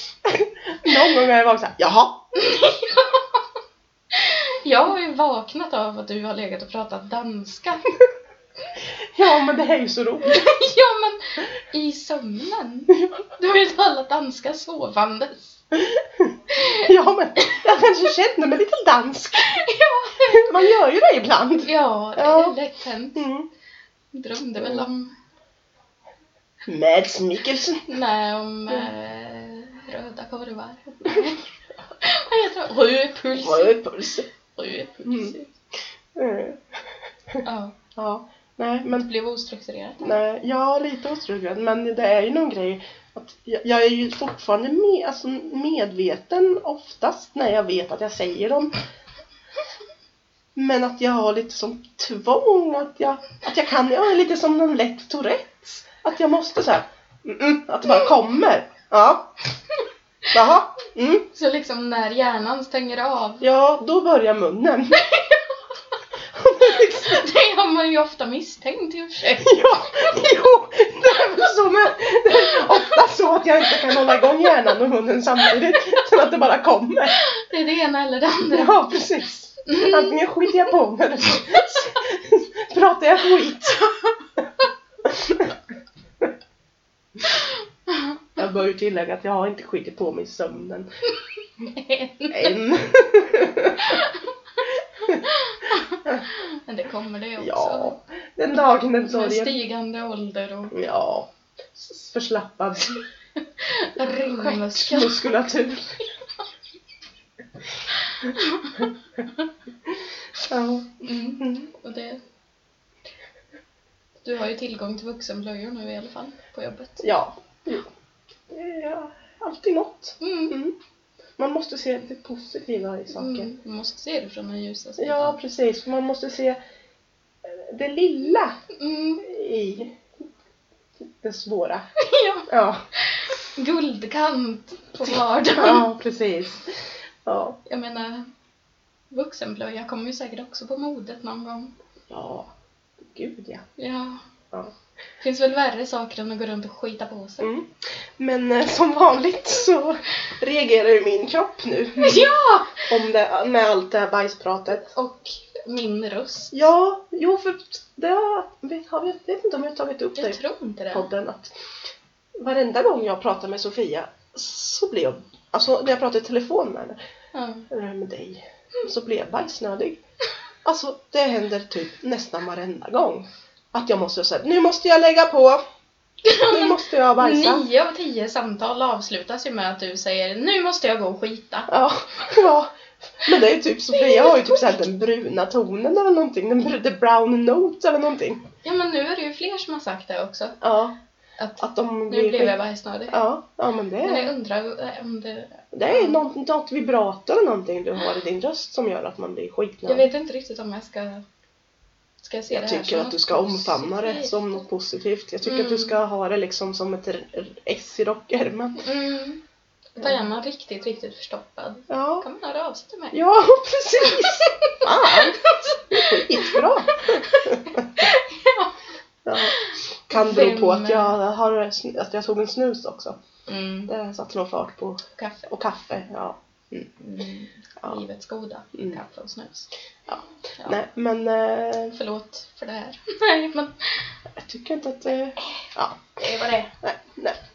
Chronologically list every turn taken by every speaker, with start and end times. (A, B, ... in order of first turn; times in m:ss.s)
0:00.2-0:02.3 A
0:02.3-0:03.4 B
0:04.1-0:07.8 B
0:09.1-0:10.5 A
0:10.2-0:15.6 B
0:12.9-0:13.2 A
0:15.7-0:19.6 A
0:16.5-0:16.9 B
0:19.4-0:20.8 B
0:20.2-0:22.6 A
0:21.6-0:23.2 B
0:23.1-0:23.5 A
0:24.1-0:25.1 B
0:26.6-0:27.9 A
0:27.9-0:31.5 B
0:32.0-0:33.8 B
0:33.3-0:34.3 A
0:34.5-0:35.5 B
0:35.0-0:35.3 A
0:36.1-0:37.4 A
0:37.4-0:37.8 B
0:38.0-0:39.0 A
0:38.8-0:40.1 B
0:40.0-0:48.7 A
0:50.5-0:59.4 A
1:00.3-1:01.3 A
1:01.3-1:03.4 B
1:03.4-1:05.1 A
1:04.9-1:06.0 B
1:06.3-1:07.3 A
1:06.6-1:09.7 B
1:09.4-1:17.2 A
1:17.1-1:18.9 B
1:18.5-1:24.5 A
1:19.7-1:20.5 B
1:25.0-1:25.6 A
1:27.9-1:28.2 B
1:28.4-1:30.9 A
1:31.6-1:32.6 B
1:32.3-1:34.0 A
1:33.8-1:34.3 B
1:35.0-1:35.3 A
1:35.1-1:38.0 B
1:37.4-1:39.6 A
1:39.0-1:40.7 B
1:40.7-1:43.0 A
1:43.4-1:45.4 B
1:44.0-1:46.1 A
1:48.1-1:48.9 B
1:48.2-1:48.8 A
1:49.8-1:51.6 A
1:51.0-1:52.2 B
1:54.2-1:57.1 B
1:57.0-1:57.9 A
1:58.5-2:00.7 A
2:00.2-2:00.5 B
2:01.4-2:03.5 A
2:03.1-2:05.4 B
2:05.0-2:06.6 A
2:07.4-2:08.6 A
2:08.7-2:09.2 B
2:09.2-2:10.0 A
2:11.2-2:11.9 A
2:12.0-2:15.9 B
2:12.5-2:12.8 A
2:15.0-2:17.6 A
2:17.6-2:18.3 B
2:19.1-2:21.7 B
2:22.1-2:23.7 A
2:23.8-2:24.2 B
2:25.2-2:27.5 B
2:27.4-2:32.3 A
2:32.0-2:32.9 B
2:32.8-2:34.9 A
2:34.8-2:36.6 B
2:36.5-2:40.4 A
2:40.2-2:41.1 B
2:40.9-2:41.5 A
2:42.4-2:47.0 A
2:47.3-2:47.7 B
2:47.7-2:50.0 A
2:50.6-2:55.6 A
2:56.2-3:01.7 B
2:56.3-2:57.7 A
3:01.7-3:08.4 A
3:03.9-3:04.7 B
3:08.6-3:10.6 B
3:10.6-3:11.0 A
3:11.4-3:13.2 B
3:11.6-3:12.6 A
3:13.1-3:14.3 A
3:14.0-3:16.2 B
3:15.7-3:20.1 A
3:19.8-3:21.2 B
3:22.2-3:24.6 B
3:22.5-3:28.9 A
3:25.4-3:26.0 B
3:28.8-3:29.4 B
3:29.9-3:33.2 B
3:31.9-3:32.2 A
3:33.1-3:38.1 A
3:34.0-3:38.7 B
3:39.2-3:43.2 A
3:40.1-3:41.2 B
3:43.5-3:43.9 B
3:43.9-3:46.9 A
3:45.2-3:45.5 B
3:47.0-3:49.7 B
3:50.1-3:51.9 A
3:51.9-3:54.2 B
3:54.4-3:56.1 A
3:56.2-3:56.7 B
3:56.8-3:57.4 A